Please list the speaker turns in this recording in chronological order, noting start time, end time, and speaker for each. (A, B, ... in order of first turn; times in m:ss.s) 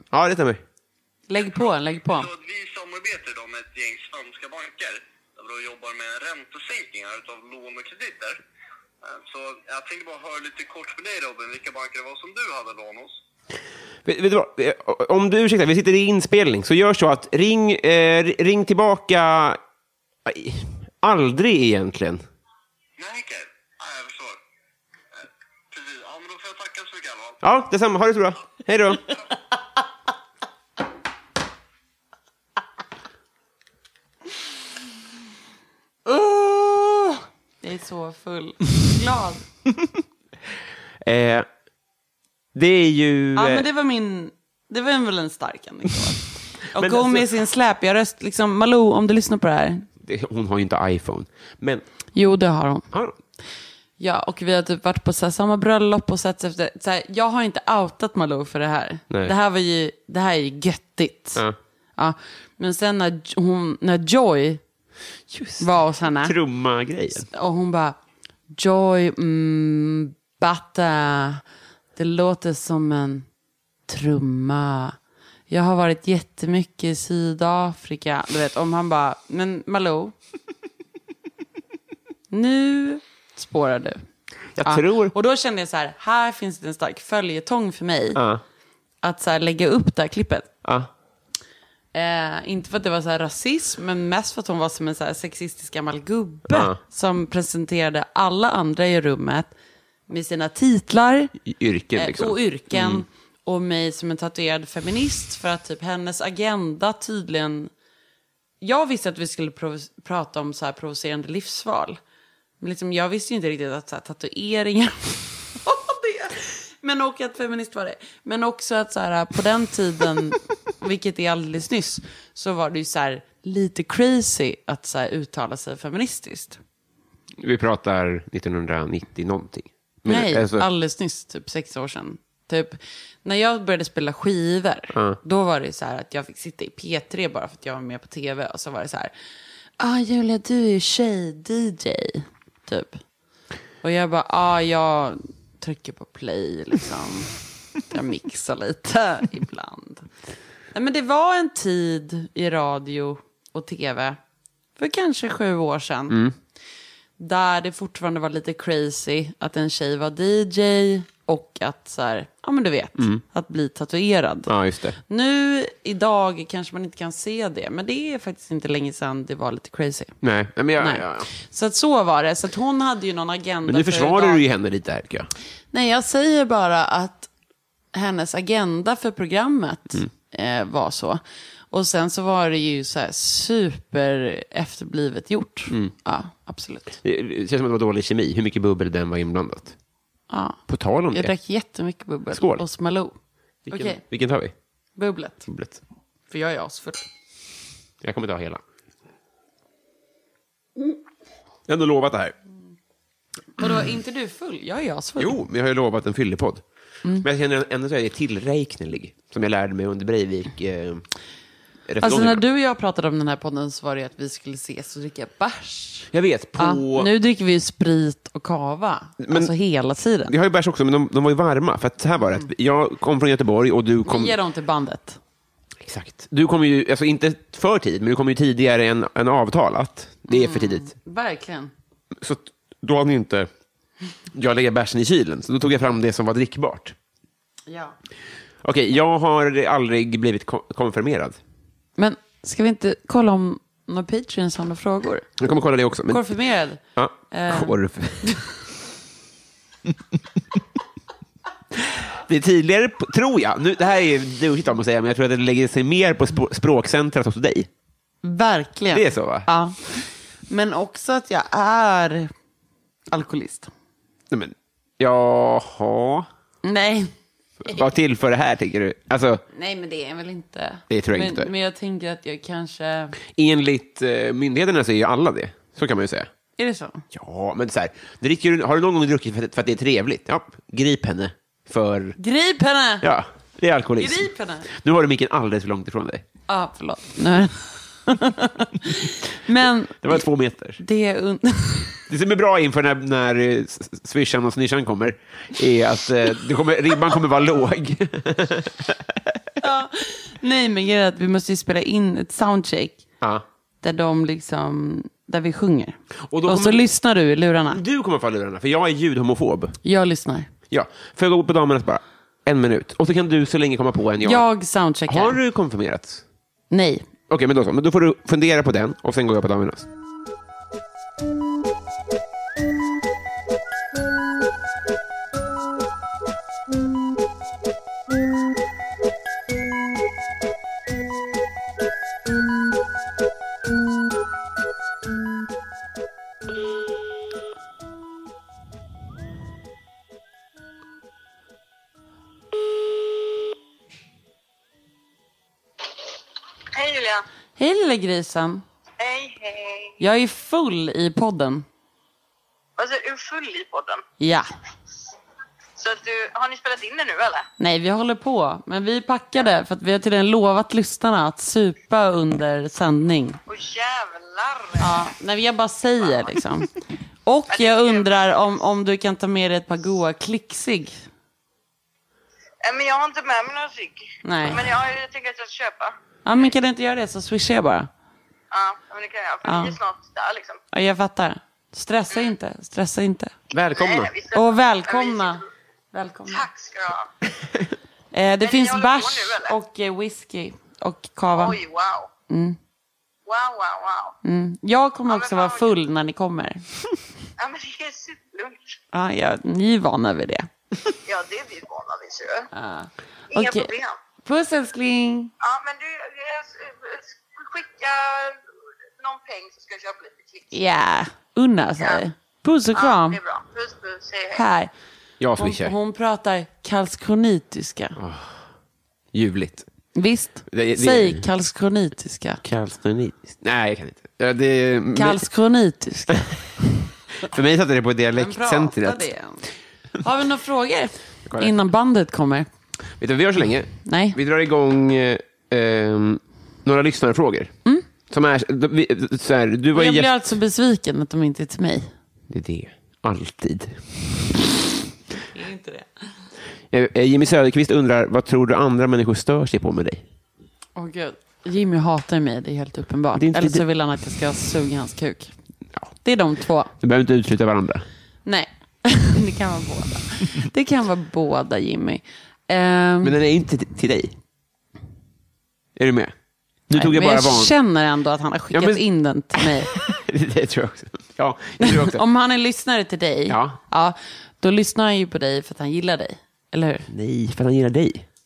0:00.1-0:00.6 A
0:01.3-0:02.3 B
0:02.1-0:08.4 C
0:09.0-0:13.2 C
0:14.0-0:19.6 A
0:20.2-0:22.2 A
0:23.0-0:24.4 C
0:25.7-0:27.4 C
0:27.4-0:29.0 A
0:36.1-0:39.4 B
0:41.0-0:41.5 A
0:42.5-0:43.7 A
0:43.4-0:49.9 B
0:46.7-0:47.3 A
0:50.0-0:51.8 A
0:52.1-0:52.9 B
0:52.9-0:53.2 A
0:54.0-1:01.4 B
1:02.0-1:04.6 B
1:05.3-1:07.3 A
1:05.6-1:06.4 B
1:07.3-1:08.0 B
1:08.5-1:11.4 B
1:12.0-1:13.2 B
1:13.9-1:15.0 B
1:15.5-1:20.1 B
1:22.3-1:24.0 B
1:24.5-1:25.1 A
1:24.6-1:28.2 B
1:28.1-1:28.4 A
1:29.0-1:30.5 B
1:30.6-1:30.9 A
1:31.9-1:39.5 B
1:36.5-1:36.8 A
1:40.1-1:41.3 B
1:41.4-1:43.0 A
1:41.9-1:47.7 B
1:48.6-1:52.0 B
1:52.6-2:06.6 B
2:07.4-2:10.7 A
2:10.1-2:19.1 B
2:14.9-2:15.2 A
2:19.8-2:23.0 B
2:23.8-2:27.3 B
2:27.9-2:30.1 B
2:30.7-2:34.2 B
2:34.8-2:36.2 B
2:36.1-2:36.3 A
2:37.2-2:44.5 B
2:43.0-2:43.2 A
2:44.5-2:45.0 A
2:45.0-2:50.2 B
2:50.2-2:51.3 A
2:50.8-2:54.4 B
2:53.6-2:55.3 A
2:55.7-2:57.3 B
2:57.9-3:01.2 B
3:01.7-3:07.0 B
3:07.0-3:09.7 A
3:10.3-3:10.6 B
3:10.7-3:11.3 A
3:11.1-3:13.1 B
3:12.3-3:12.6 A
3:13.6-3:14.5 A
3:13.7-3:14.0 B
3:15.0-3:15.5 B
3:15.5-3:15.8 A
3:16.3-3:17.0 B
3:18.0-3:18.6 A
3:21.7-3:22.3 A
3:23.6-3:25.4 B
3:25.2-3:26.6 A
3:27.2-3:31.0 A
3:31.9-3:32.4 A
3:32.0-3:40.3 B
3:36.1-3:37.1 A
3:39.2-3:39.5 A
3:40.3-3:44.4 A
3:44.0-3:45.2 B
3:45.8-3:50.9 A
3:50.3-3:51.7 B
3:52.2-3:53.5 A
3:54.3-3:57.0 A
3:57.7-3:57.9 B
3:58.6-4:01.4 A
4:02.0-4:05.3 B
4:05.4-4:06.3 A
4:06.1-4:08.4 B
4:07.0-4:08.4 A
4:11.7-4:17.7 A
4:18.2-4:22.3 B
4:18.9-4:19.5 A
4:23.1-4:23.7 B
4:24.3-4:26.3 A
4:26.6-4:27.1 B
4:27.6-4:29.4 A
4:29.5-4:33.1 B
4:30.9-4:31.5 A
4:33.3-4:36.3 A
4:36.6-4:37.0 B
4:37.1-4:42.2 A
4:42.2-4:43.0 B
4:43.0-4:46.2 A
4:44.0-4:44.7 B
4:46.5-4:50.2 B
4:50.0-4:50.8 A
4:50.8-4:52.1 B
4:52.1-4:59.4 A
4:59.6-5:03.0 B
5:03.8-5:07.8 B
5:06.3-5:06.8 A
5:07.7-5:09.8 A
5:09.8-5:10.5 B
5:10.7-5:14.5 A
5:14.2-5:15.4 B
5:15.1-5:16.2 A
5:16.7-5:17.0 B
5:17.3-5:19.8 A
5:46.7-5:47.2 D
5:47.6-5:48.6 B
5:49.0-5:50.0 D
5:50.0-5:51.6 B
5:52.8-5:54.0 D
5:54.2-5:54.4 B
5:55.8-5:57.5 D
5:57.6-6:03.4 B
6:03.5-6:04.9 D
6:04.8-6:06.7 B
6:07.2-6:11.0 B
6:07.5-6:08.1 D
6:12.6-6:16.4 D
6:14.2-6:14.6 B
6:16.2-6:17.9 B
6:18.5-6:20.6 D
6:19.4-6:19.8 B
6:20.7-6:23.3 B
6:23.5-6:24.1 A
6:23.7-6:25.4 D
6:24.3-6:26.5 B
6:26.3-6:27.1 D
6:28.1-6:31.6 B
6:28.4-6:29.6 D
6:31.3-6:32.1 D
6:32.3-6:32.6 B
6:33.2-6:34.1 D
6:34.2-6:36.6 B
6:35.1-6:35.7 D
6:37.4-6:38.8 D
6:38.9-6:40.5 B
6:41.0-6:42.5 D
6:42.5-6:43.7 B
6:43.3-6:44.0 D
6:44.2-6:45.3 B
6:45.4-6:48.4 D
6:49.0-6:50.5 D
6:50.5-6:53.2 B
6:52.7-6:54.4 D
6:54.3-6:54.7 B
6:55.2-6:55.7 A
6:55.4-6:58.0 B
6:58.0-6:58.4 A
6:59.1-6:59.7 A
6:59.9-7:02.4 B
7:00.5-7:01.2 A
7:02.4-7:05.2 A
7:05.0-7:06.3 B
7:07.2-7:09.1 A
7:08.2-7:09.5 B
7:10.0-7:12.5 B
7:11.3-7:11.5 A
7:13.0-7:17.5 A
7:13.8-7:14.2 B
7:18.1-7:20.1 A
7:19.7-7:21.9 B
7:22.3-7:24.5 A
7:25.3-7:26.0 B
7:26.7-7:30.0 A
7:30.8-7:35.3 B
7:33.2-7:33.6 A
7:36.0-7:36.7 B
7:36.8-7:37.8 A
7:38.2-7:43.2 B
7:43.0-7:44.1 A
7:45.8-7:46.1 A
7:46.7-7:47.5 A
7:46.7-7:49.7 B
7:48.5-7:48.8 A
7:49.4-7:52.0 A
7:51.6-7:56.9 B
7:53.3-7:53.6 A
7:56.9-7:58.0 A